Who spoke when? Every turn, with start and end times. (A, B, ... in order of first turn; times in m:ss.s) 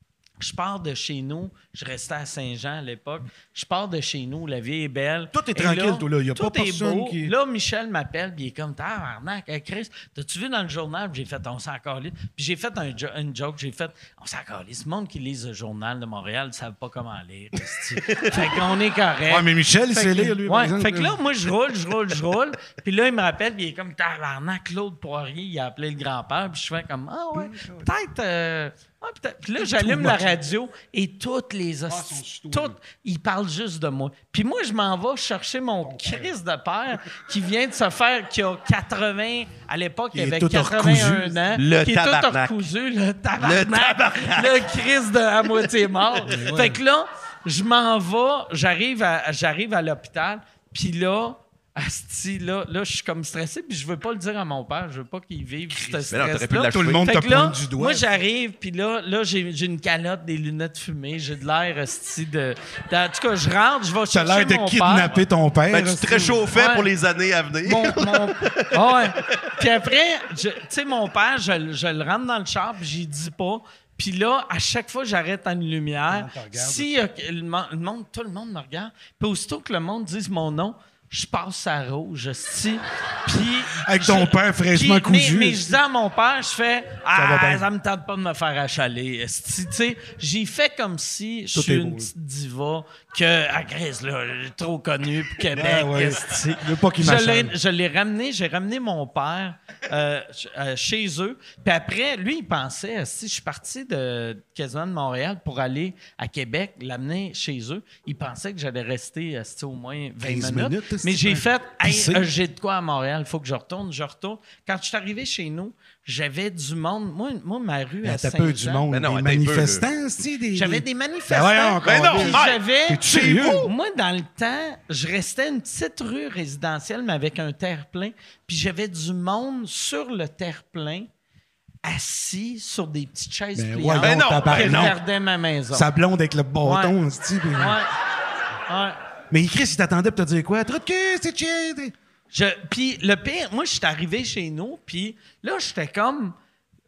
0:00.4-1:05.2 A
0:05.3-0:07.3 B
0:18.0-0:18.5 C
0:19.3-0:21.2 B
0:27.3-0:27.9 B
0:29.6-0:30.4 B
0:31.9-0:32.8 B
0:35.8-0:36.3 B
0:40.1-0:41.4 B
0:41.5-0:42.6 C
0:43.4-0:44.7 C
0:46.3-0:46.8 B
0:55.9-0:57.1 C
0:56.7-0:58.1 B
1:04.1-1:06.4 B
1:05.7-1:09.5 C
1:06.5-1:06.9 A
1:07.6-1:58.8 A
1:16.1-1:16.9 B
1:23.8-1:25.8 B
1:27.1-1:27.7 B
1:31.5-1:32.1 B
1:35.5-1:37.5 B
1:50.2-1:52.3 B
1:58.0-2:03.7 B
1:58.9-1:59.9 C
2:00.5-2:11.1 A
2:01.8-2:03.7 C
2:11.8-2:15.9 A
2:13.6-2:15.0 B
2:14.0-2:14.9 C
2:15.7-2:17.8 B
2:16.6-2:17.0 A
2:17.6-2:17.9 A
2:18.7-2:19.0 A
2:19.3-2:21.9 B
2:22.3-2:26.4 A